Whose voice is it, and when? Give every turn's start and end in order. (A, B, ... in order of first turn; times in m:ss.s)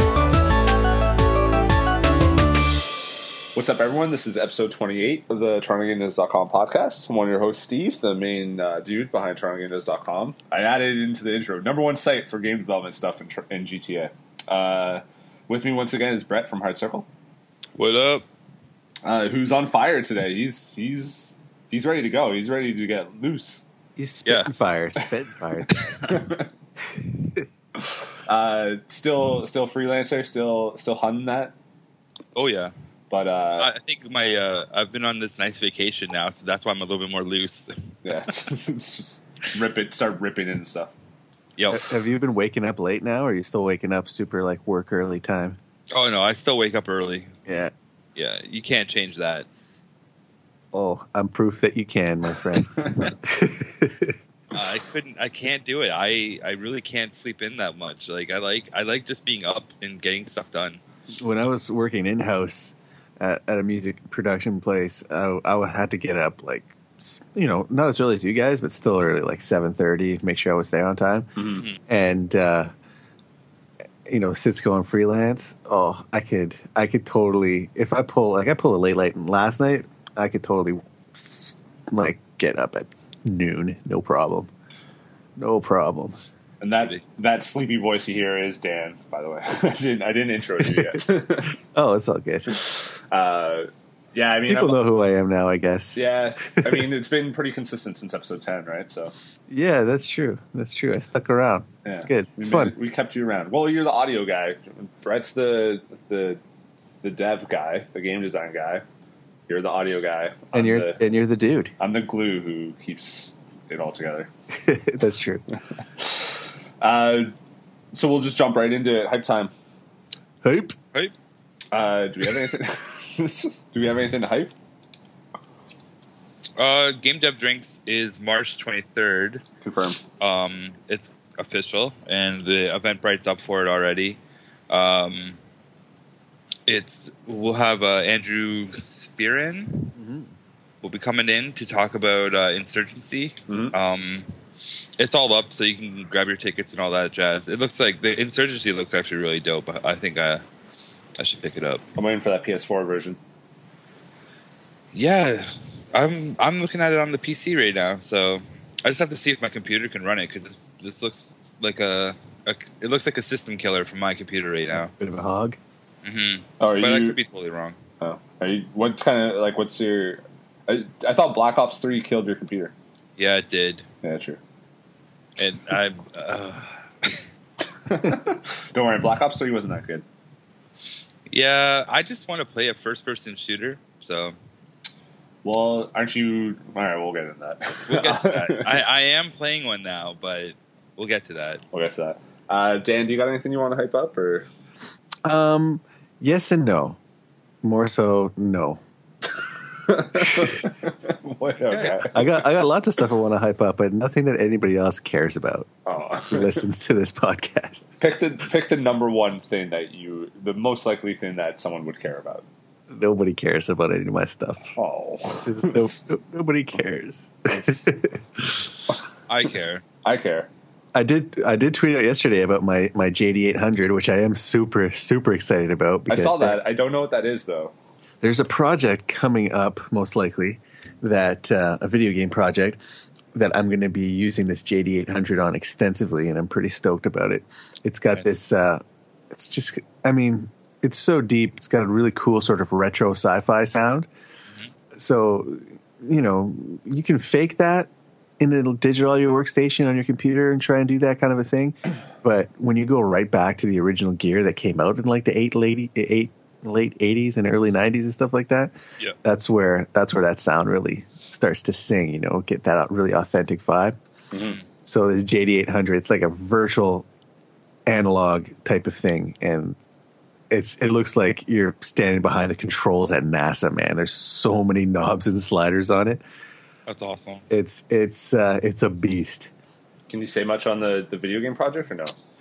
0:03.5-0:17.1 A
0:17.8-0:18.2 B
0:19.0-0:23.6 A
0:24.0-0:26.0 C
0:24.2-0:24.5 B
0:25.8-0:26.1 B
0:26.0-0:26.5 A
0:28.1-0:31.5 A
0:32.3-0:32.7 B
0:33.1-0:33.7 A
0:33.6-0:38.3 B
0:38.0-0:40.9 A
0:41.6-0:42.0 B
0:41.7-0:45.6 C
0:45.9-0:47.3 B
0:47.4-0:47.7 C
0:48.2-0:49.4 B
0:50.7-0:54.2 C
0:52.7-0:53.1 A
0:54.5-1:00.8 B
1:01.2-1:11.3 C
1:11.4-1:11.7 A
1:11.9-1:12.7 C
1:14.0-1:24.5 C
1:25.4-1:26.2 C
1:26.6-1:31.5 A
1:30.7-1:31.0 C
1:31.6-1:32.6 C
1:32.5-1:34.8 A
1:34.5-1:36.9 C
1:35.9-1:39.1 A
1:39.5-1:42.7 C
1:41.8-1:46.4 A
1:47.0-1:48.8 A
1:49.5-1:51.0 A
1:50.5-1:51.7 C
1:51.8-1:54.3 A
1:54.6-1:55.4 C
1:56.0-1:57.3 A
1:57.9-1:59.5 A
2:00.4-2:00.8 C
2:01.7-2:04.5 A
2:06.6-2:09.4 B
2:09.6-2:10.0 A
2:10.2-2:14.2 B
2:14.7-2:15.4 B
2:16.7-2:19.9 B
2:19.9-2:20.3 C
2:20.8-2:24.2 B
2:23.5-2:23.7 A
2:25.0-2:30.4 B
2:31.2-2:31.8 B
2:32.0-2:33.2 A
2:34.9-2:44.9 B
2:44.7-2:45.6 C
2:46.0-2:47.8 B
2:46.6-2:47.2 A
2:48.0-2:52.7 A
2:53.2-2:53.8 B
2:54.0-2:54.4 A
2:55.4-2:57.2 B
2:57.8-3:00.0 A
3:01.3-3:04.4 B
3:05.4-3:08.8 A
3:07.9-3:11.6 B
3:11.7-3:14.5 A
3:15.2-3:17.0 C
3:17.6-3:18.8 C
3:19.8-3:22.4 A
3:20.1-3:20.6 C
3:22.1-3:25.7 C
3:25.8-3:26.6 A
3:26.3-3:27.9 C
3:28.0-3:32.4 A
3:32.9-3:34.7 C
3:34.7-3:35.9 A
3:35.4-3:38.8 C
3:37.5-3:37.8 A
3:39.3-3:39.8 B
3:40.0-3:40.5 A
3:40.9-3:46.6 C
3:46.1-3:47.7 A
3:48.2-3:52.8 C
3:53.3-4:04.1 C
4:04.9-4:24.0 C
4:24.3-4:24.6 A
4:24.8-4:27.0 C
4:27.9-4:29.8 C
4:30.5-4:36.2 C
4:36.9-4:37.4 B
4:37.5-4:39.5 C
4:40.1-4:42.2 A